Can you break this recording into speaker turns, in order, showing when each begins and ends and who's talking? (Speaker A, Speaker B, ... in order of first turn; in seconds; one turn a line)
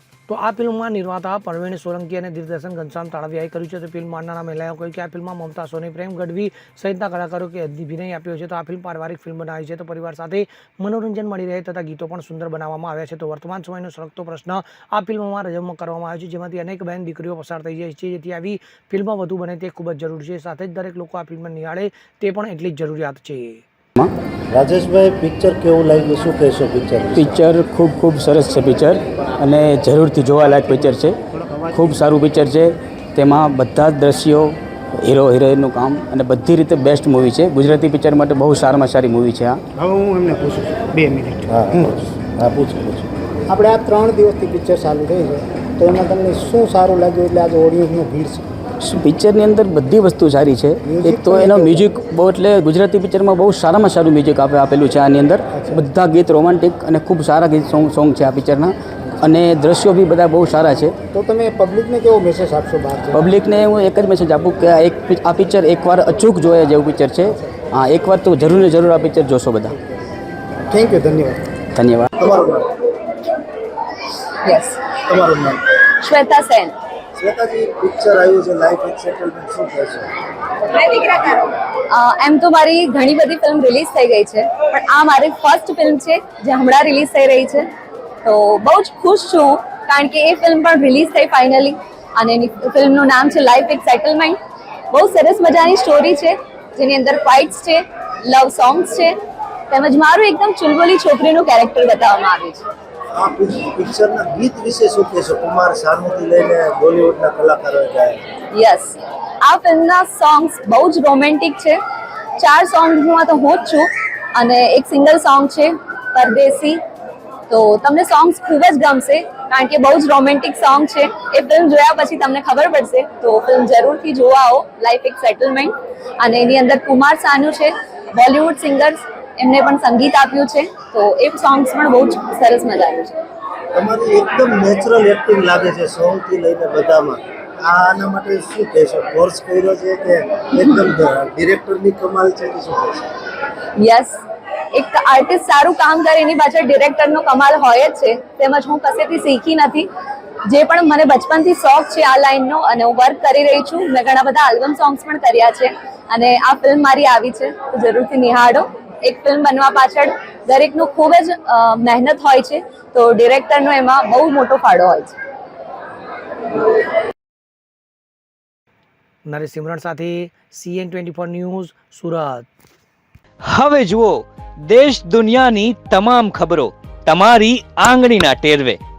Speaker A: 0.3-23.6
Speaker B: 24.5-27.4
Speaker C: 27.1-31.1
Speaker D: 31.4-31.9
Speaker C: 31.7-39.6
Speaker D: 39.7-42.0
Speaker B: 41.5-43.1
Speaker D: 43.5-48.5
Speaker C: 48.8-61.0
Speaker D: 50.8-51.8
Speaker D: 55.5-55.8
Speaker D: 61.1-63.3
Speaker C: 63.1-69.8
Speaker D: 70.7-71.5
Speaker C: 71.7-72.1
Speaker B: 72.2-72.9
Speaker E: 74.4-74.8
Speaker B: 75.1-75.7
Speaker E: 75.9-76.7
Speaker B: 77.1-80.1
Speaker E: 80.6-87.7
Speaker E: 88.2-94.4
Speaker E: 94.9-99.1
Speaker E: 99.7-102.6
Speaker B: 103.1-108.2
Speaker E: 108.5-111.8
Speaker E: 112.4-116.8
Speaker E: 117.5-133.2
Speaker B: 133.7-143.1
Speaker E: 143.8-144.2
Speaker E: 144.7-149.9
Speaker E: 150.5-165.2
Speaker A: 169.3-172.5
Speaker F: 173.5-178.8